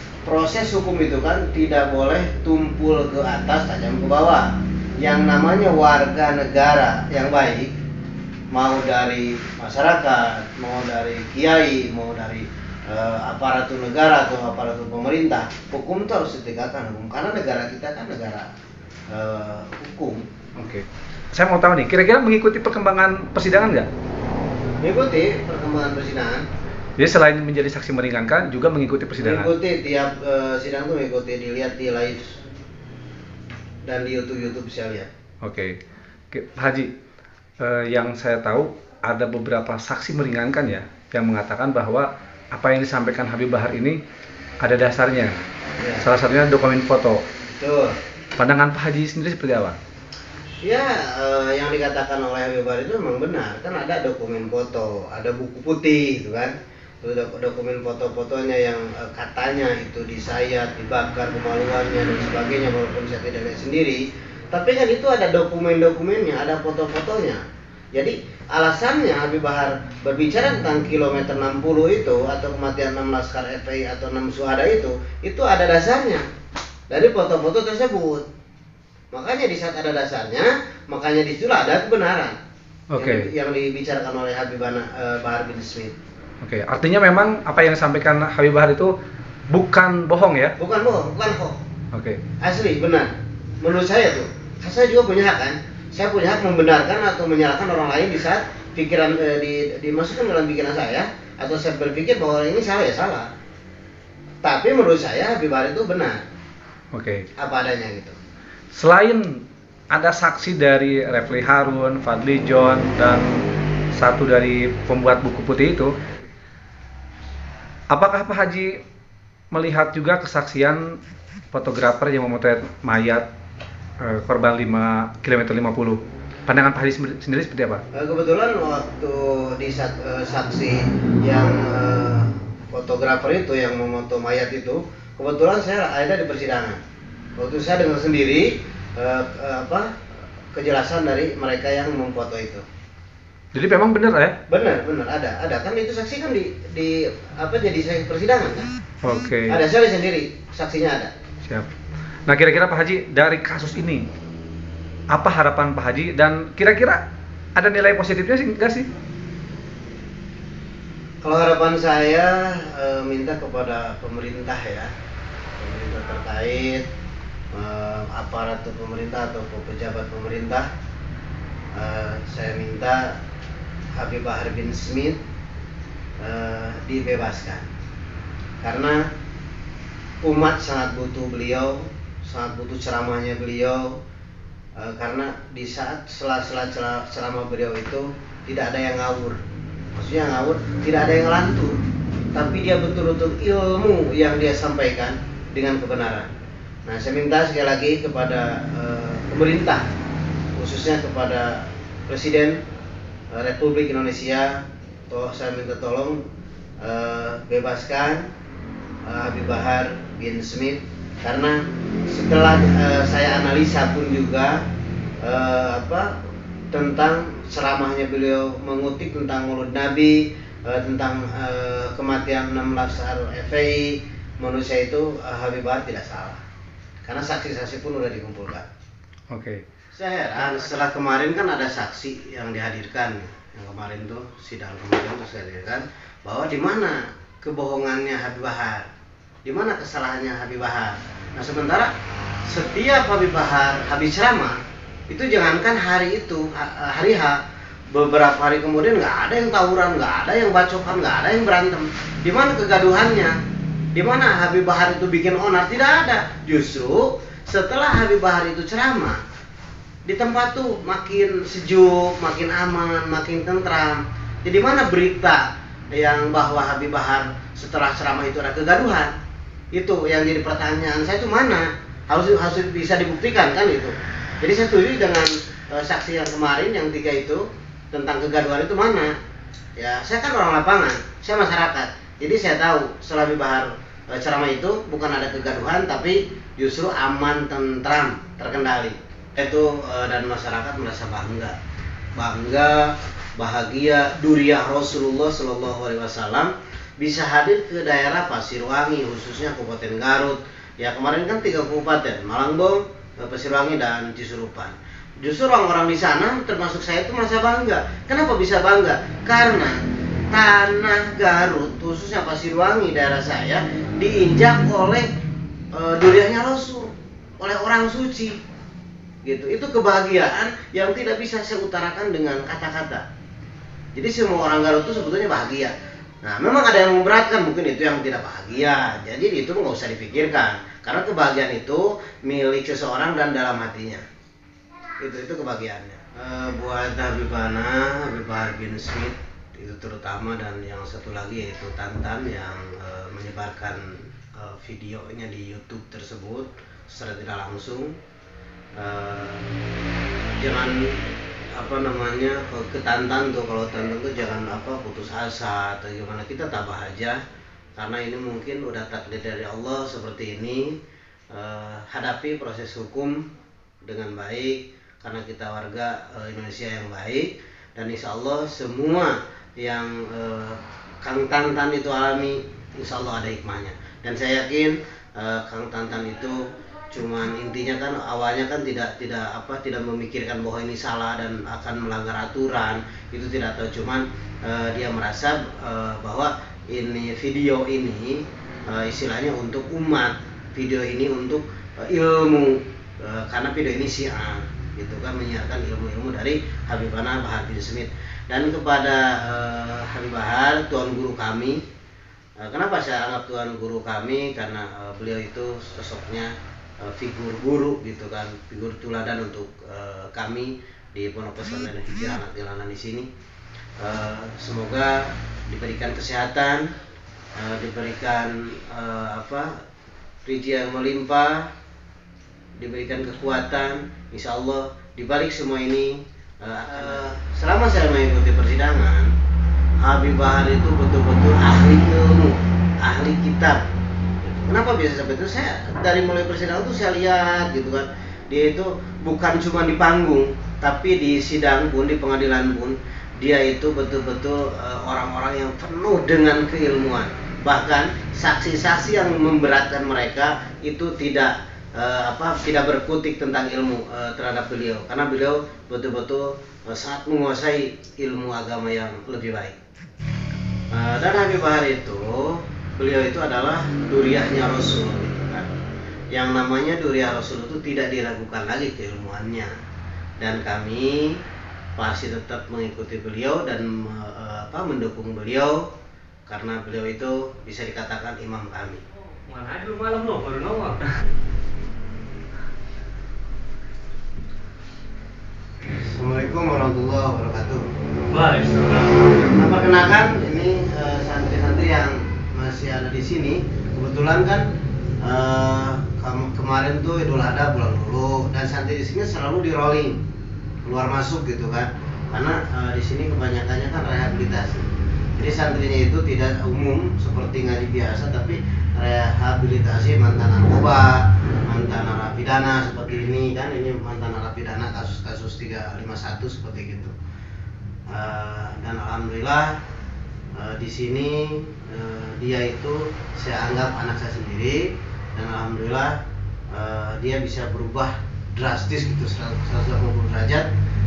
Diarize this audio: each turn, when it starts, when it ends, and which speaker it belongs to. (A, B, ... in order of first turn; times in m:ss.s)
0:00.2-0:04.5 A
0:05.0-0:07.7 A
0:08.5-0:18.5 A
0:19.1-0:20.2 A
0:20.6-0:23.9 B
0:24.8-0:26.4 A
0:27.0-0:29.5 B
0:29.2-0:32.4 A
0:33.8-0:35.1 A
0:35.4-0:35.8 B
0:36.3-0:36.9 B
0:37.6-0:44.0 B
0:44.6-0:45.4 B
0:45.8-0:46.1 A
0:46.0-0:47.2 B
0:47.5-0:48.0 A
0:48.4-0:49.8 B
0:50.6-1:07.4 A
1:08.0-1:16.2 A
1:16.9-1:18.3 A
1:19.1-1:22.4 A
1:22.9-1:23.3 B
1:23.0-1:26.0 A
1:26.4-1:28.9 B
1:29.5-1:30.5 B
1:30.6-1:31.6 A
1:31.9-1:32.2 B
1:32.4-1:33.1 A
1:33.6-1:43.3 A
1:44.4-1:46.2 A
1:46.9-1:47.3 B
1:47.4-1:48.2 A
1:48.8-1:49.4 B
1:49.9-1:53.4 B
1:53.9-1:55.9 B
1:57.9-1:58.8 B
1:59.5-2:01.0 B
2:01.5-2:03.2 B
2:04.0-2:07.8 B
2:07.9-2:16.8 A
2:17.4-2:19.9 A
2:20.5-2:22.6 A
2:23.5-2:24.4 B
2:24.5-2:28.7 A
2:29.0-2:29.6 B
2:29.5-2:31.1 A
2:32.3-2:34.0 B
2:35.1-2:37.0 B
2:37.6-2:38.9 B
2:41.2-2:44.9 A
2:45.6-2:46.8 A
2:47.5-2:50.7 A
2:51.8-2:53.2 A
2:54.0-2:55.2 A
2:56.2-2:57.7 A
2:58.6-2:59.0 A
3:00.2-3:04.0 A
3:04.8-3:09.4 A
3:10.0-3:11.8 A
3:12.3-3:16.3 A
3:16.9-3:19.8 A
3:20.6-3:22.6 A
3:23.3-3:26.2 A
3:26.8-3:28.2 A
3:29.1-3:31.6 A
3:32.1-3:34.6 A
3:35.2-3:36.1 A
3:36.7-3:46.4 A
3:47.0-3:48.7 A
3:49.3-3:49.6 B
3:49.9-3:58.9 A
3:59.4-4:01.9 A
4:02.5-4:07.4 A
4:07.9-4:13.4 A
4:13.9-4:19.2 A
4:20.1-4:29.1 A
4:29.7-4:39.1 A
4:39.8-4:51.6 A
4:52.2-5:09.8 A
5:10.3-5:15.1 A
5:15.8-5:18.4 A
5:19.2-5:23.0 A
5:24.0-5:34.0 A
5:35.0-5:48.0 A
5:48.8-5:49.5 A
5:50.4-5:51.0 A
5:51.6-5:57.2 A
5:57.8-6:00.8 A
6:01.3-6:03.2 A
6:03.8-6:41.6 A
6:42.4-6:46.3 A
6:46.8-6:53.1 A
6:53.8-6:56.7 A
6:57.4-6:59.5 A
7:00.2-7:01.5 A
7:02.6-7:09.1 A
7:09.8-7:13.6 A
7:14.2-7:39.6 A
7:40.7-7:45.5 A
7:46.1-7:49.5 A
7:50.2-7:51.2 A
7:51.8-7:55.7 A
7:56.3-7:58.8 A
7:59.3-8:00.8 C
8:05.7-8:07.6 A
8:08.1-8:09.1 C
8:09.1-8:14.5 A
8:15.0-8:20.0 A
8:20.6-8:24.6 A
8:25.2-8:37.0 A
8:37.9-8:39.6 A
8:40.4-8:46.0 A
8:46.5-8:50.5 A